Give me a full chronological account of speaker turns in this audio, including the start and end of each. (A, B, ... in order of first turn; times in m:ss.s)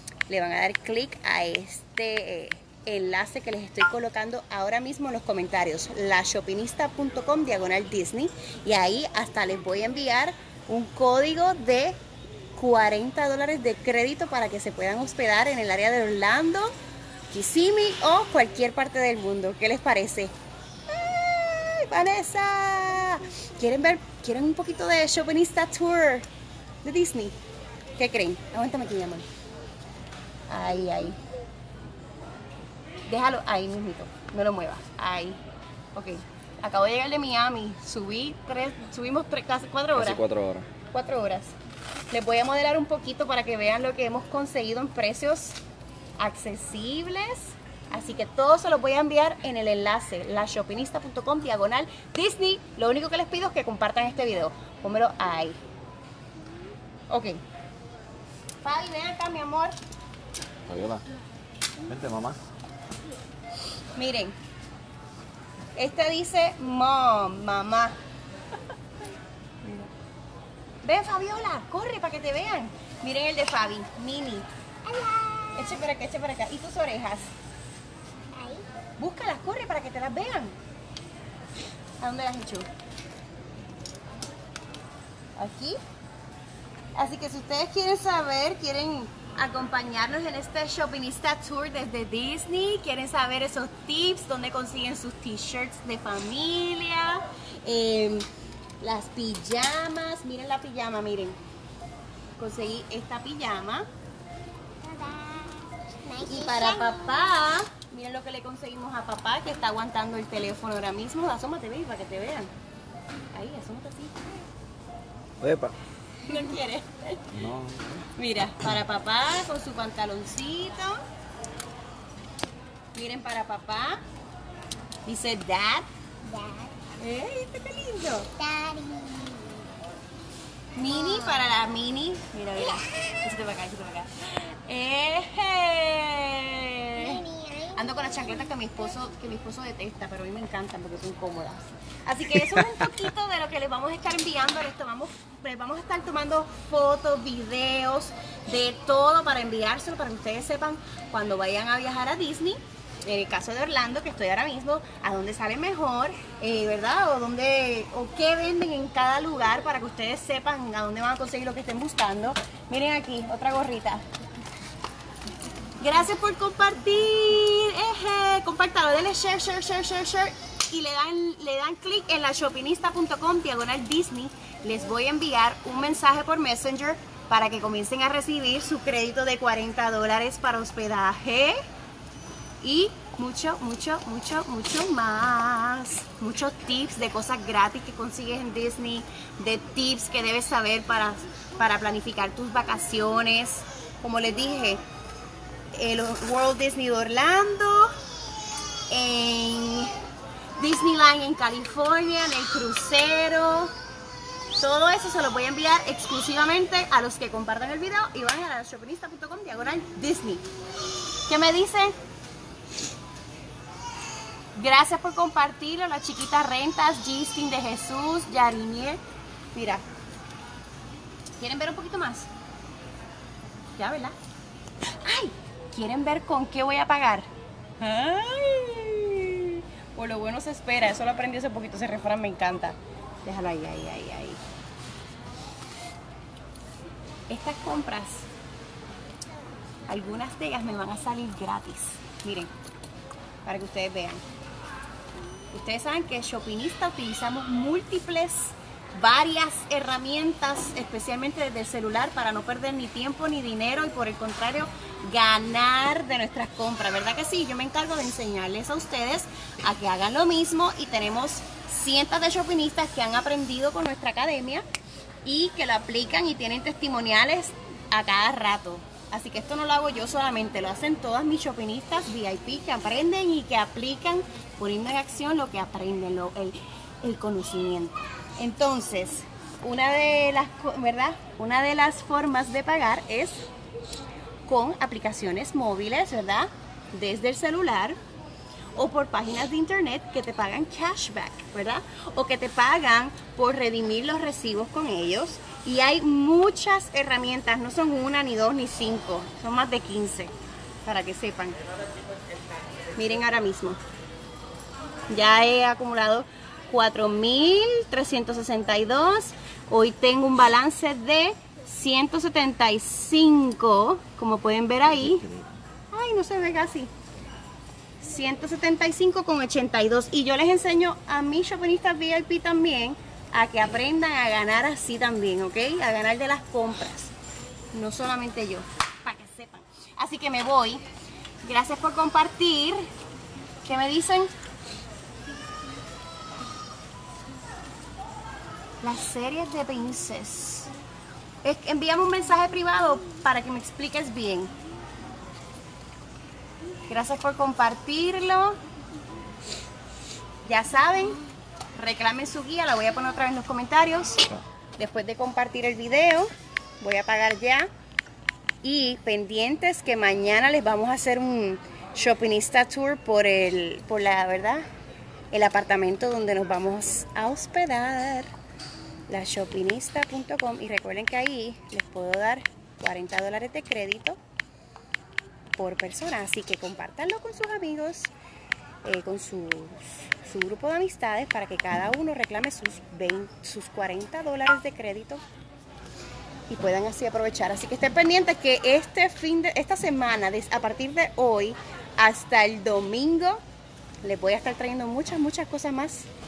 0:00.3-0:12.0 A
0:12.6-0:16.8 A
0:17.3-0:20.3 A
0:20.9-0:26.3 A
0:26.8-0:27.4 A
0:28.0-0:29.3 A
0:30.5-0:31.2 A
0:33.1-0:35.4 A
0:35.9-0:40.2 A
0:40.0-0:40.7 B
0:40.9-0:41.6 A
0:42.1-0:45.6 A
0:46.2-0:55.6 A
0:57.1-0:57.4 A
0:58.6-0:59.8 A
1:00.7-1:01.0 B
1:01.9-1:02.4 B
1:04.0-1:04.4 A
1:05.8-1:08.0 A
1:09.6-1:09.9 A
1:10.8-1:14.5 A
1:14.9-1:15.6 C
1:15.5-1:17.3 A
1:18.3-1:18.6 C
1:19.0-1:20.5 A
1:22.0-1:22.7 A
1:25.4-1:25.8 A
1:27.0-1:38.3 A
1:38.8-1:41.4 A
1:42.4-1:43.9 A
1:44.8-1:47.3 C
1:46.2-1:52.5 A
1:53.3-1:54.2 A
1:55.4-1:55.8 B
1:56.2-1:57.2 A
1:57.3-1:58.1 B
1:58.2-2:01.0 A
2:03.0-2:04.0 A
2:05.1-2:05.8 A
2:06.2-2:06.8 C
2:07.0-2:08.3 A
2:08.4-2:09.7 C
2:10.8-2:44.0 A
2:17.0-2:17.9 C
2:45.8-3:01.6 A
3:02.6-3:14.8 A
3:15.7-3:17.9 A
3:18.9-3:19.9 A
3:20.6-3:23.7 A
3:24.6-3:30.5 A
3:31.3-3:32.0 A
3:34.6-3:39.0 A
3:39.5-3:39.8 A
3:41.4-3:42.3 A
3:43.8-3:44.2 A
3:45.0-3:47.3 A
3:47.8-3:54.4 A
3:57.3-3:58.3 A
3:59.9-4:02.5 A
4:03.4-4:04.2 A
4:05.5-4:24.6 A
4:25.2-4:43.5 A
4:44.5-4:48.0 A
4:48.7-5:00.3 A
5:00.8-5:01.6 A
5:03.0-5:03.8 A
5:05.1-5:15.3 A
5:15.9-5:16.9 A
5:18.0-5:27.1 A
5:27.7-5:30.8 A
5:31.4-5:32.9 A
5:33.6-5:34.3 A
5:38.8-5:40.7 A
5:41.4-5:44.5 A
5:46.9-5:48.6 A
5:50.4-5:51.2 A
5:51.8-5:57.7 A
5:58.6-6:04.6 A
6:05.3-6:08.3 A
6:09.1-6:14.2 A
6:15.6-6:18.1 A
6:18.8-6:25.2 A
6:26.5-6:33.4 A
6:34.0-6:36.1 A